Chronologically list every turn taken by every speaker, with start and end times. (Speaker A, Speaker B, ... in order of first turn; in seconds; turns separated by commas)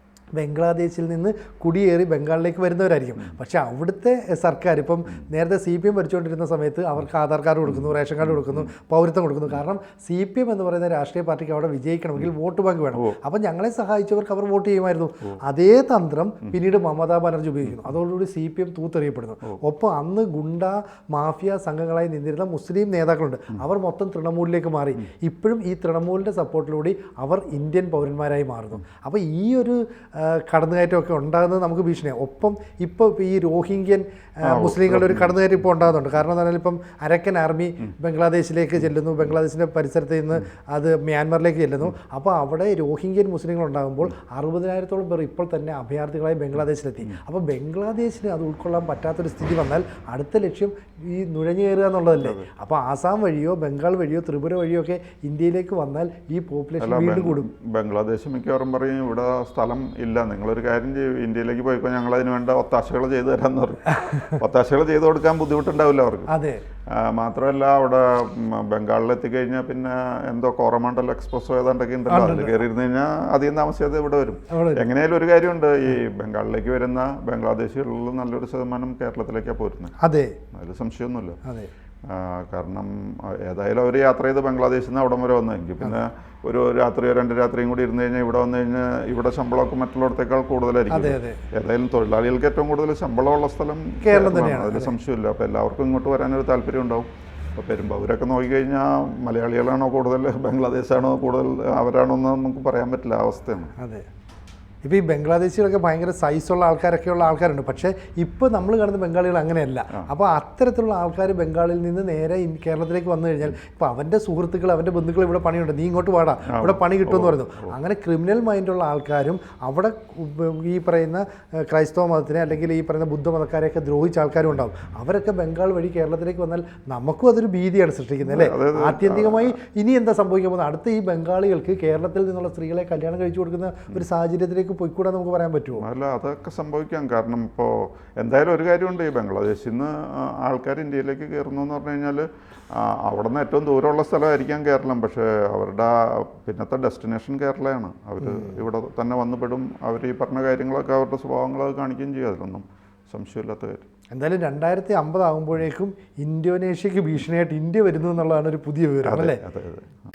Speaker A: 0.3-57.5, Speaker B: 7.7-8.7, Speaker B: 12.9-13.2, Speaker B: 17.6-17.9, Speaker B: 34.4-35.8, Speaker B: 52.1-52.5, Speaker B: 56.8-66.3, Speaker A: 66.3-66.6, Speaker B: 66.9-80.0, Speaker A: 72.1-72.6, Speaker A: 74.5-74.9, Speaker A: 80.0-80.3, Speaker B: 80.5-81.4, Speaker A: 81.5-81.7, Speaker B: 82.0-103.7, Speaker A: 90.9-91.4, Speaker A: 94.0-94.9, Speaker A: 103.8-104.0, Speaker A: 104.8-135.8, Speaker B: 116.5-117.7, Speaker B: 128.2-129.6, Speaker B: 135.8-153.9, Speaker A: 148.2-148.5, Speaker A: 154.1-159.4, Speaker B: 159.0-159.9